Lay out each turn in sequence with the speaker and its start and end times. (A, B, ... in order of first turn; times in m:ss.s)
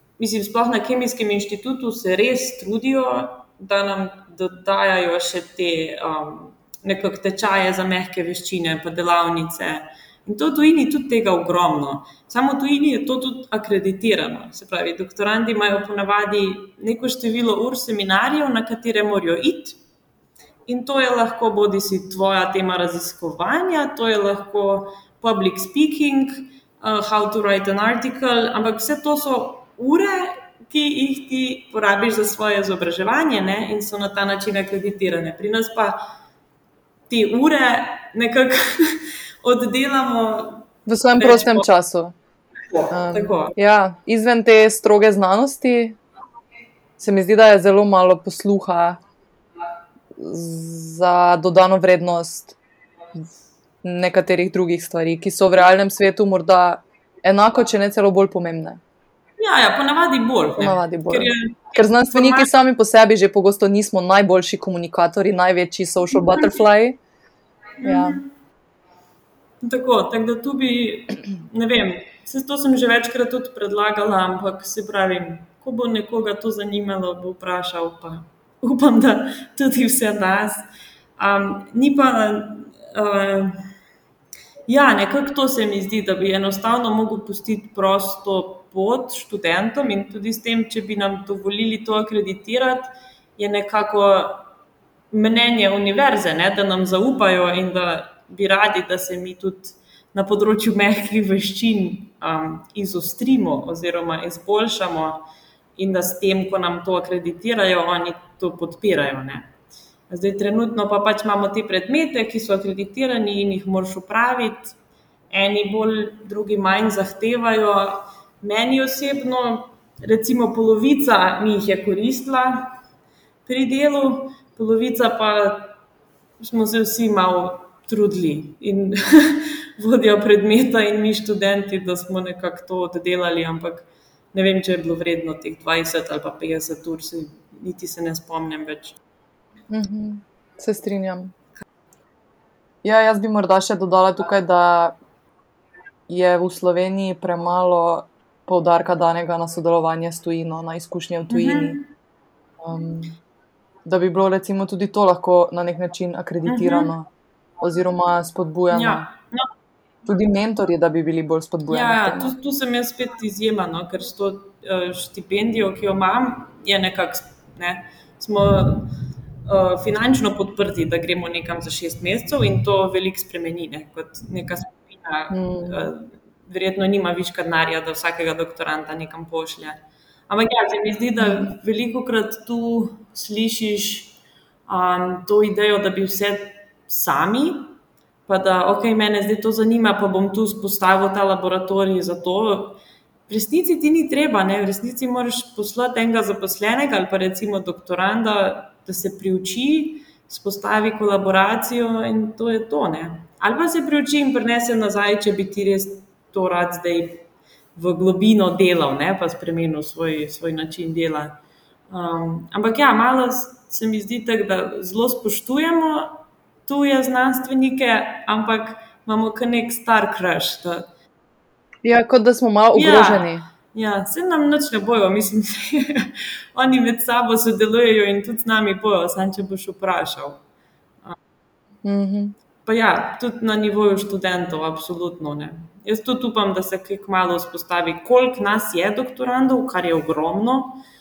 0:00.2-0:19.8 A
0:20.7-0:36.0 A
0:37.1-0:41.7 A
0:40.8-0:42.1 B
0:42.7-0:43.5 A
0:42.9-0:46.0 B
0:47.0-0:49.0 B
0:50.2-0:52.6 B
0:53.8-0:58.8 B
0:59.4-1:02.5 A
1:00.6-1:07.0 B
1:06.3-1:06.5 A
1:07.8-1:08.2 A
1:07.8-1:08.2 B
1:09.6-1:20.6 A
1:21.2-1:23.6 A
1:24.7-1:34.5 A
1:35.1-1:45.2 A
1:45.8-1:49.5 A
1:50.1-1:54.8 A
1:55.3-2:02.8 A
2:03.4-2:05.8 A
2:06.4-2:19.0 A
2:19.7-2:21.3 B
2:22.8-2:25.0 B
2:26.1-2:31.8 B
2:31.3-2:31.9 A
2:32.6-2:33.1 B
2:33.8-2:39.0 B
2:36.4-2:36.9 A
2:38.7-2:39.5 A
2:40.0-2:42.3 B
2:41.7-2:48.9 A
2:49.5-3:07.7 A
2:55.3-2:55.8 B
3:01.2-3:01.5 B
3:08.3-3:27.2 A
3:27.7-3:31.4 A
3:31.9-3:40.9 A
3:41.8-3:43.4 B
3:42.7-3:50.4 A
3:51.8-3:52.3 B
3:52.6-4:00.8 A